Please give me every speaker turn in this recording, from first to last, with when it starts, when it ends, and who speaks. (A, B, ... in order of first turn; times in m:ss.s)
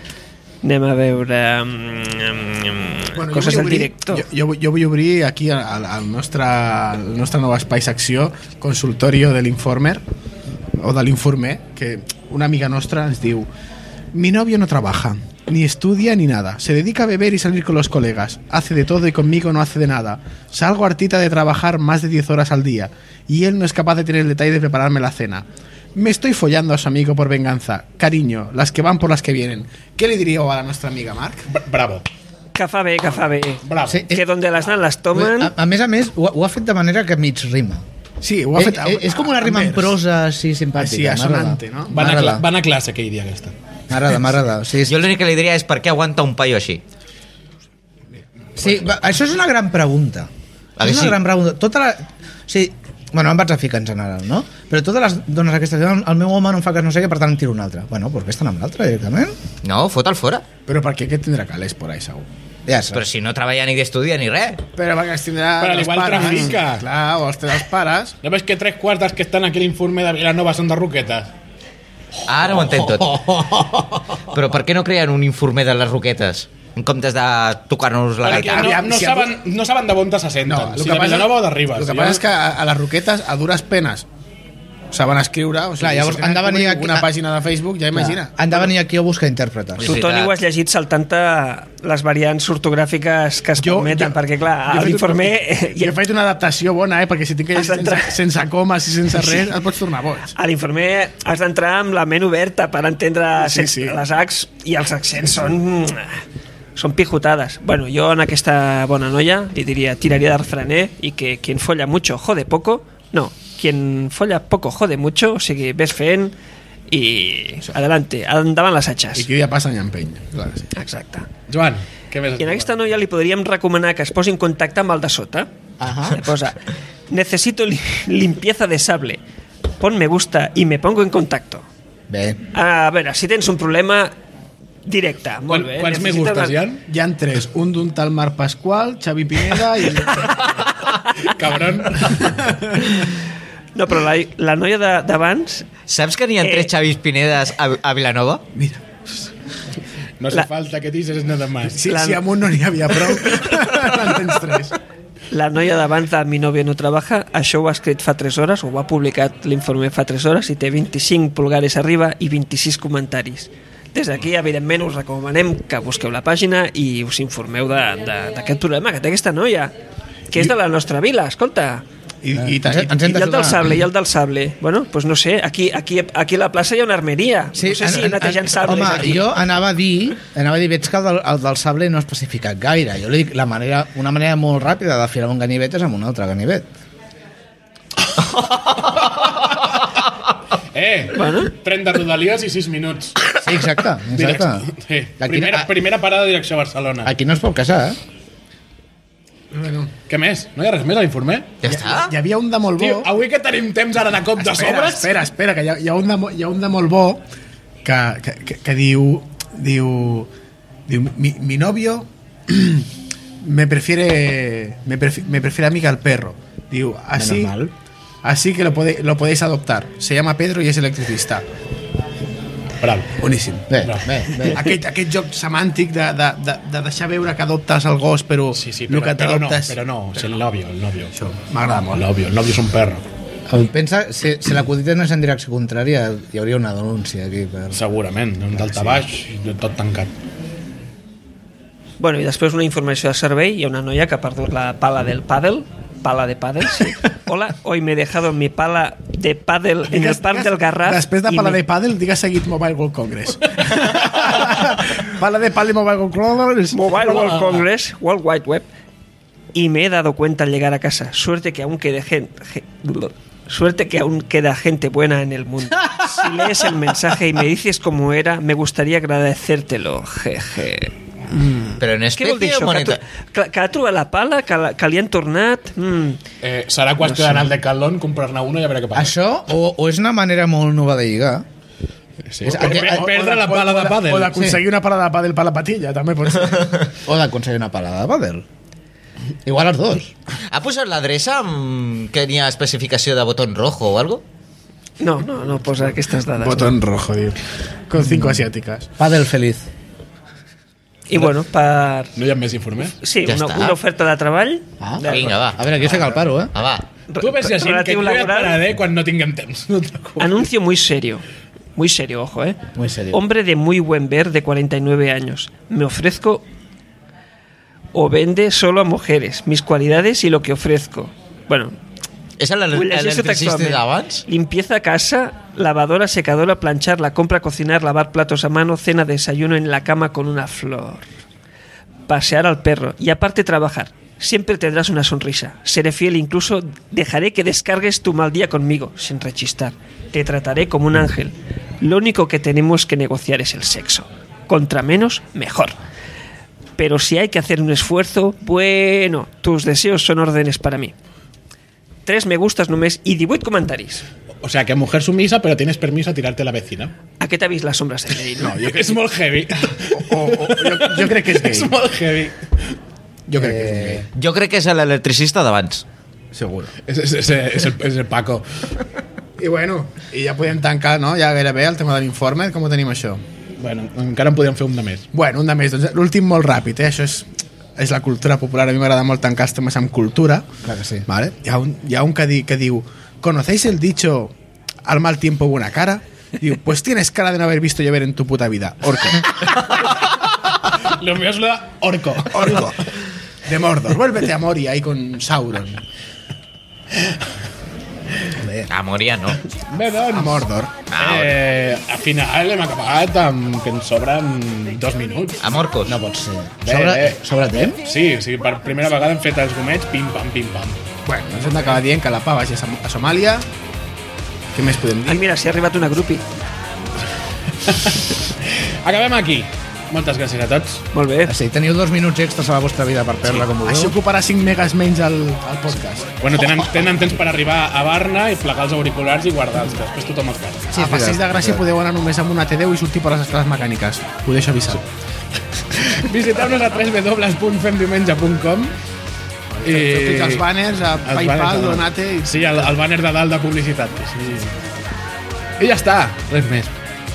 0:00.6-0:04.3 A
0:03.1-0:10.0 B
0:10.8-0:13.5 B
0:14.1-0:31.5 B
0:31.5-0:32.1 C
0:32.6-0:35.5 A
0:33.6-0:34.1 C
0:33.9-0:34.2 D
0:35.2-0:37.8 D
0:38.2-0:40.0 B
0:38.6-0:42.5 D
0:40.8-0:42.2 B
0:41.9-0:43.5 C
0:43.9-0:45.0 D
0:44.8-0:46.8 E
0:48.6-0:50.3 D
0:50.8-0:51.2 E
0:50.8-0:59.4 D
0:59.6-1:00.4 E
1:00.7-1:02.3 B
1:02.7-1:03.1 D
1:02.9-1:04.6 E
1:04.7-1:08.2 B
1:05.6-1:06.9 C
1:08.2-1:11.3 C
1:12.3-1:13.3 E
1:12.6-1:14.3 D
1:14.3-1:18.8 E
1:18.2-1:22.2 C
1:18.3-1:19.3 B
1:20.4-1:24.1 B
1:24.9-1:28.7 B
1:25.8-1:27.1 D
1:27.9-1:30.0 D
1:29.8-1:30.4 E
1:29.8-1:35.9 A
1:33.6-1:40.3 B
1:37.5-1:38.2 A
1:40.4-1:46.2 A
1:43.4-1:44.0 B
1:46.8-1:56.4 A
1:56.9-1:59.3 A
1:59.2-2:00.7 B
2:00.8-2:01.3 A
2:01.5-2:02.9 C
2:02.4-2:05.5 A
2:05.8-2:06.2 D
2:06.0-2:09.2 A
2:09.8-2:11.6 A
2:12.1-2:12.4 D
2:12.5-2:14.1 A
2:14.8-2:16.6 A
2:15.5-2:16.8 C
2:16.9-2:20.6 B
2:21.2-2:22.4 C
2:22.0-2:22.8 B
2:23.8-2:25.7 A
2:25.9-2:28.4 E
2:26.4-2:26.7 A
2:28.6-2:28.8 B
2:30.2-2:31.8 C
2:31.7-2:34.8 B
2:31.9-2:32.2 A
2:35.3-2:49.7 A
2:50.3-2:51.8 A
2:52.2-2:53.1 B
2:52.4-2:53.8 D
2:53.0-2:59.3 A
2:57.6-3:06.7 D
3:09.0-3:09.8 C
3:10.7-3:13.3 C
3:11.2-3:11.5 A
3:13.4-3:14.7 D
3:14.1-3:17.1 C
3:15.2-3:15.7 D
3:17.0-3:18.0 D
3:19.5-3:19.9 B
3:20.1-3:21.6 C
3:21.6-3:22.1 E
3:21.7-3:23.1 B
3:22.8-3:25.1 C
3:24.4-3:27.2 B
3:27.8-3:30.3 B
3:30.9-3:32.9 B
3:33.4-3:37.6 B
3:37.2-3:37.7 D
3:38.2-3:41.4 B
3:42.8-3:43.2 C
3:43.2-3:43.8 B
3:43.7-3:44.7 D
3:44.4-3:49.8 B
3:48.5-3:51.2 C
3:51.2-3:52.0 B
3:51.9-3:53.0 C
3:53.5-3:57.8 D
3:57.7-4:00.1 C
4:02.0-4:11.6 A
4:09.9-4:17.4 B
4:16.7-4:18.7 A
4:19.5-4:36.2 A
4:31.8-4:33.0 E
4:36.4-4:39.1 C
4:37.0-4:37.5 D
4:39.0-4:41.4 D
4:42.3-4:44.3 C
4:42.4-4:46.9 B
4:42.5-4:43.0 D
4:44.3-4:44.6 D
4:47.0-4:48.4 D
4:49.4-4:50.1 D
4:50.5-4:54.2 E
4:55.0-4:56.7 A
4:56.4-4:58.9 B
4:58.0-4:58.4 D
4:59.0-4:59.7 D
5:01.1-5:02.2 A
5:02.2-5:03.0 C
5:03.0-5:05.4 A
5:03.2-5:03.8 E
5:04.8-5:06.6 D
5:05.1-5:05.8 E
5:06.5-5:06.9 E
5:07.1-5:08.6 A
5:07.2-5:10.5 C
5:10.2-5:11.2 A
5:11.8-5:16.5 A
5:12.8-5:13.2 D
5:17.9-5:21.8 A
5:22.4-5:24.2 E
5:22.7-5:31.1 A
5:32.1-5:45.8 A
5:46.8-5:50.9 A
5:52.1-5:54.0 A
5:54.4-5:56.9 C
5:57.2-5:58.6 A
5:58.4-5:59.0 B
5:58.4-6:02.7 C
5:59.5-6:01.7 B
6:03.3-6:04.1 B
6:03.4-6:04.1 D
6:04.1-6:05.8 E
6:06.3-6:06.7 B
6:06.8-6:08.7 C
6:09.4-6:13.2 B
6:13.6-6:15.1 C
6:15.1-6:20.5 B
6:20.6-6:21.1 D
6:21.1-6:24.3 B
6:24.8-6:29.7 B
6:30.8-6:32.7 C
6:32.3-6:32.9 B
6:33.4-6:35.8 B
6:38.4-6:38.7 D
6:38.7-6:39.4 E
6:39.6-6:40.4 C
6:40.1-6:40.7 B
6:40.9-6:41.3 E
6:41.0-6:45.5 C
6:45.4-6:46.0 E
6:45.9-6:47.8 D
6:46.6-6:47.2 C
6:47.8-6:50.8 C
6:51.1-6:53.5 B
6:54.5-6:55.2 B
6:55.1-6:56.2 A
6:57.6-7:00.9 C
7:00.9-7:01.3 A
7:01.2-7:04.0 D
7:03.6-7:06.1 B
7:06.2-7:10.7 C
7:10.7-7:11.6 D
7:10.7-7:14.8 B
7:15.7-7:18.8 C
7:19.5-7:22.8 B
7:19.6-7:20.5 C
7:21.1-7:24.6 C
7:25.6-7:26.7 C